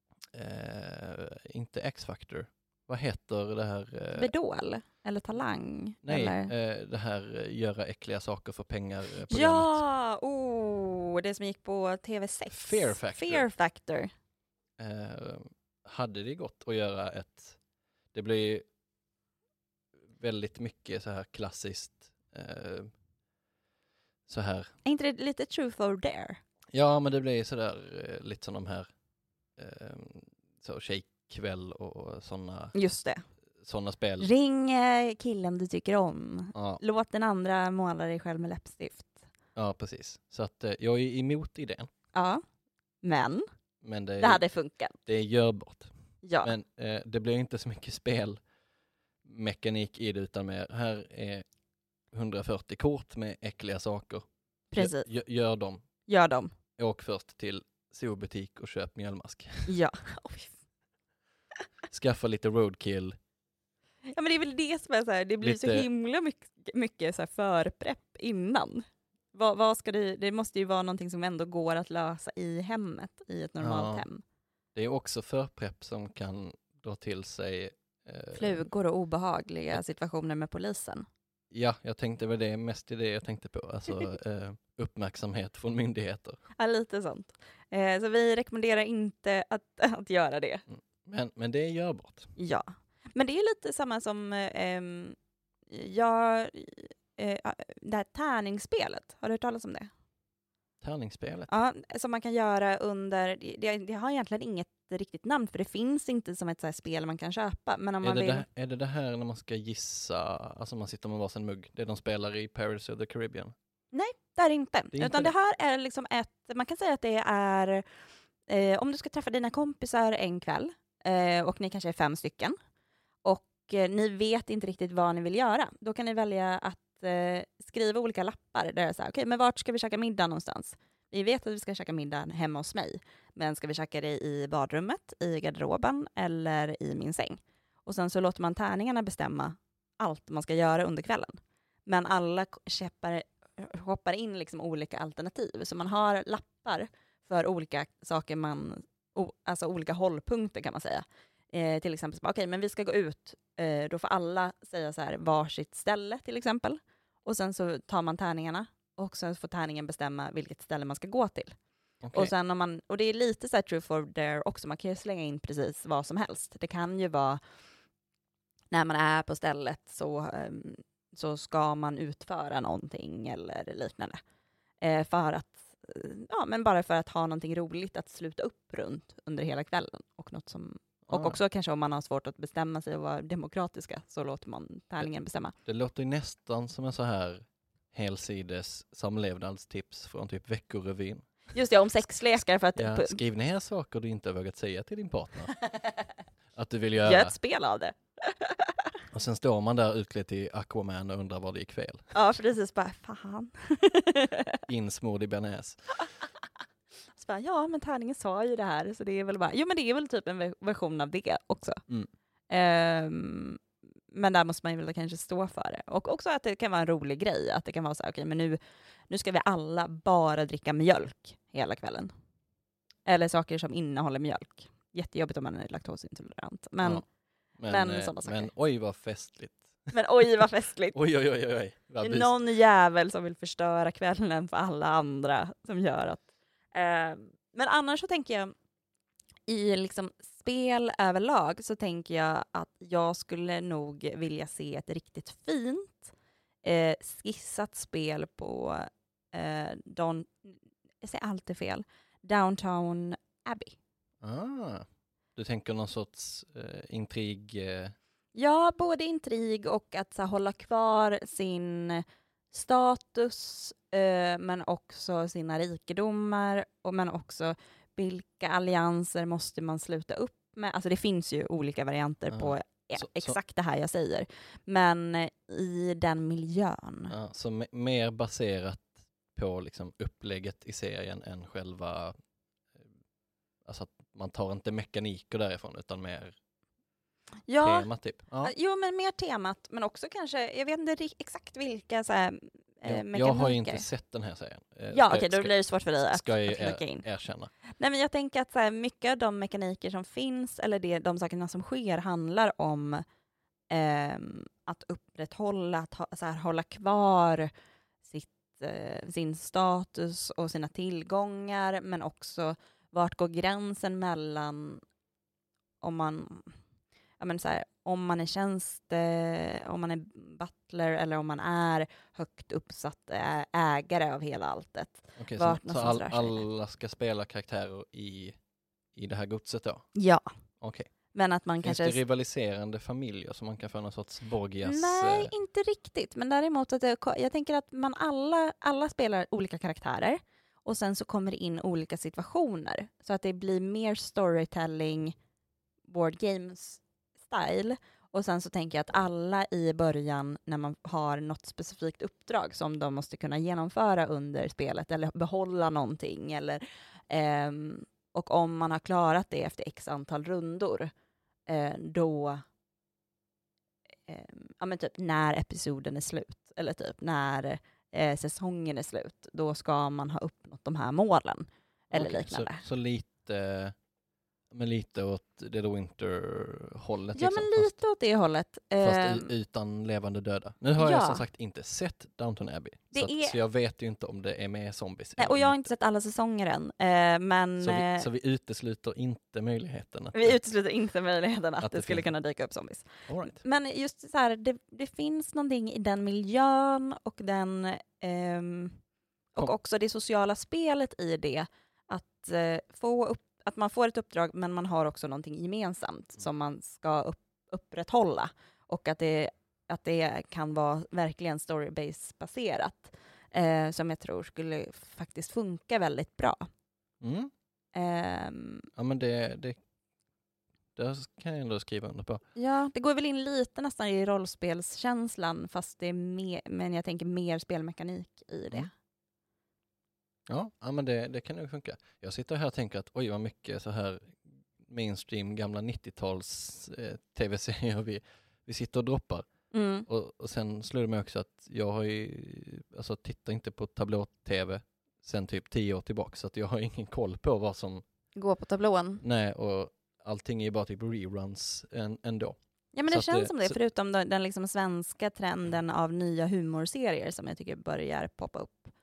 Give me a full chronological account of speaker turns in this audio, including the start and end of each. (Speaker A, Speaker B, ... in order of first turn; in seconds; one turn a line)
Speaker A: 0.3-4.3
Speaker B: 4.1-6.5
Speaker A: 6.0-9.8
Speaker B: 9.3-14.1
Speaker A: 12.5-13.5
Speaker A: 14.8-17.6
Speaker A: 18.1-18.6
Speaker A: 20.2-22.9
Speaker A: 24.3-24.7
Speaker B: 24.8-26.4
Speaker A: 26.7-28.9
Speaker A: 29.6-32.7
Speaker B: 32.7-33.2
Speaker A: 33.6-34.3
Speaker B: 34.2-39.2
Speaker A: 36.5-36.8
Speaker A: 39.5-41.9
Speaker B: 42.1-42.4
Speaker B: 43.0-43.4
Speaker A: 43.8-44.4
Speaker B: 44.2-45.0
Speaker A: 45.0-45.9
Speaker B: 46.2-46.5
Speaker A: 46.4-48.4
Speaker A: 49.2-51.4
Speaker A: 52.1-55.8
Speaker B: 54.7-55.1
Speaker B: 56.1-56.5
Speaker A: 56.8-59.7
Speaker B: 59.7-60.5
Speaker A: 61.9-63.2
Speaker B: 64.1-74.2
Speaker A: 65.4-65.9
Speaker A: 73.6-74.0
Speaker A: 74.7-78.7
Speaker B: 78.3-81.0
Speaker A: 81.5-86.4
Speaker B: 86.6-90.6
Speaker A: 90.7-92.3
Speaker B: 92.4-95.2
Speaker B: 95.7-99.9
Speaker A: 100.8-101.5
Speaker B: 101.5-108.4
Speaker A: 108.0-113.5
Speaker B: 113.9-117.8
Speaker A: 114.9-115.3
Speaker B: 118.5-122.5
Speaker B: 123.2-161.5
Speaker A: 162.0-162.3
Speaker B: 162.1-167.4
Speaker B: 168.7-174.2
Speaker B: 174.8-185.5
Speaker A: 181.1-181.4
Speaker A: 185.7-191.3
Speaker B: 191.5-193.2
Speaker A: 192.8-195.6
Speaker A: 196.5-197.3
Speaker B: 197.0-198.7
Speaker A: 199.1-202.1
Speaker B: 202.1-204.6
Speaker A: 204.7-205.8
Speaker B: 207.1-211.8
Speaker B: 212.5-218.6
Speaker B: 219.1-222.1
Speaker B: 223.1-227.0
Speaker A: 227.6-229.9
Speaker B: 227.7-228.5
Speaker B: 229.9-231.0
Speaker A: 230.9-232.3
Speaker B: 232.0-238.5
Speaker B: 239.5-246.1
Speaker B: 246.6-253.8
Speaker A: 254.2-257.9
Speaker B: 258.3-277.1
Speaker A: 272.3-273.4
Speaker A: 277.1-282.1
Speaker A: 283.6-286.3
Speaker B: 287.5-287.9
Speaker A: 287.6-288.5
Speaker B: 288.4-293.8
Speaker A: 292.8-295.6
Speaker B: 294.9-297.0
Speaker A: 296.1-297.5
Speaker B: 297.7-303.0
Speaker B: 303.7-307.5
Speaker B: 308.0-314.8
Speaker B: 315.8-316.5
Speaker B: 317.2-326.4
Speaker A: 325.2-328.4
Speaker A: 328.9-329.9
Speaker B: 329.9-330.3
Speaker A: 330.6-330.9
Speaker B: 331.1-332.0
Speaker A: 331.6-335.3
Speaker B: 334.6-345.1
Speaker B: 345.9-360.9
Speaker B: 361.5-362.4
Speaker B: 364.1-372.6
Speaker A: 371.9-373.7
Speaker A: 374.5-377.7
Speaker B: 377.1-379.3
Speaker A: 378.8-385.7
Speaker B: 380.8-381.2
Speaker B: 382.9-383.4
Speaker B: 385.2-388.1
Speaker A: 387.6-390.4
Speaker B: 390.1-398.8
Speaker A: 391.6-392.1
Speaker A: 393.1-393.4
Speaker B: 399.3-416.5
Speaker A: 417.0-417.3
Speaker B: 417.7-418.7
Speaker A: 418.8-419.6
Speaker A: 420.8-422.2
Speaker B: 422.4-428.7
Speaker A: 430.3-439.3
Speaker B: 439.5-439.9
Speaker A: 439.9-447.8
Speaker B: 448.1-449.0
Speaker A: 449.0-453.6
Speaker B: 452.7-458.7